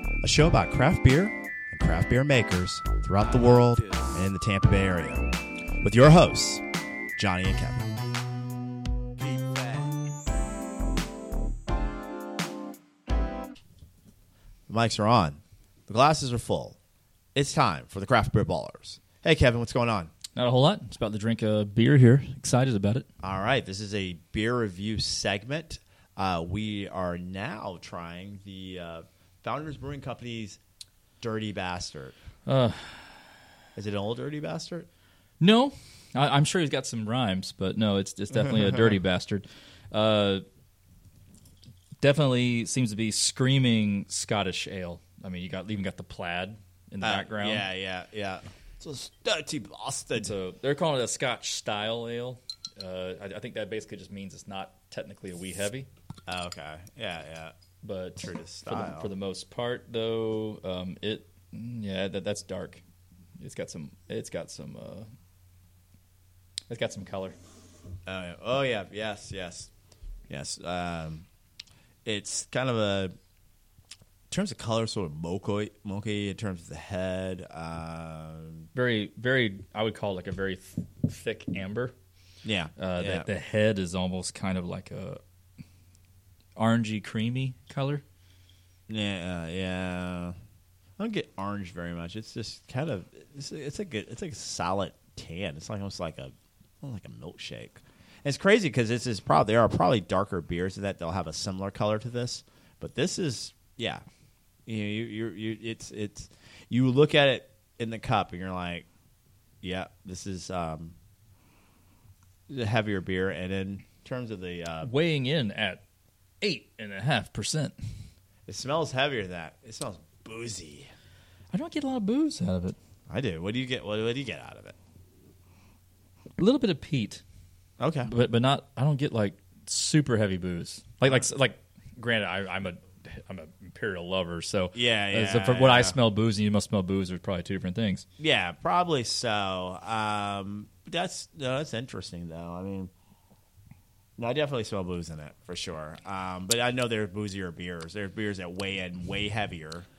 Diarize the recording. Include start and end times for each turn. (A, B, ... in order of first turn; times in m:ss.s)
0:00.2-0:05.3 A
0:05.8-0:06.6 A
0:07.2-0:07.9 A
0:14.7-0:16.8 A
0:17.4-0:20.1 A
0:20.4-0:23.1 B
0:23.2-0:30.6 A
0:31.2-0:32.2 A
0:32.5-0:33.2 B
0:33.8-0:34.9 A
0:35.4-0:40.4 B
0:42.0-0:47.7 B
0:47.0-0:50.4 A
0:50.2-0:55.9 B
0:56.3-0:57.5 A
0:57.8-1:02.8 B
0:58.2-0:59.1 A
1:03.4-1:05.1 B
1:06.7-1:07.4 B
1:08.1-1:09.7 A
1:10.3-1:11.3 A
1:12.0-1:13.1 A
1:14.3-1:18.7 A
1:18.8-1:21.9 B
1:22.4-1:23.3 A
1:22.8-1:25.2 B
1:26.6-1:28.0 B
1:28.9-1:30.4 A
1:31.0-1:44.0 A
1:44.7-1:48.9 A
1:49.6-1:51.0 A
1:52.5-1:54.9 A
1:54.8-1:55.8 B
1:56.4-1:57.8 B
1:58.5-2:00.9 A
2:01.5-2:02.8 B
2:03.1-2:04.8 A
2:06.4-2:07.2 B
2:07.8-2:08.1 A
2:08.1-2:18.0 B
2:11.0-2:11.3 A
2:14.8-2:16.0 A
2:18.2-2:22.9 A
2:24.2-2:29.9 A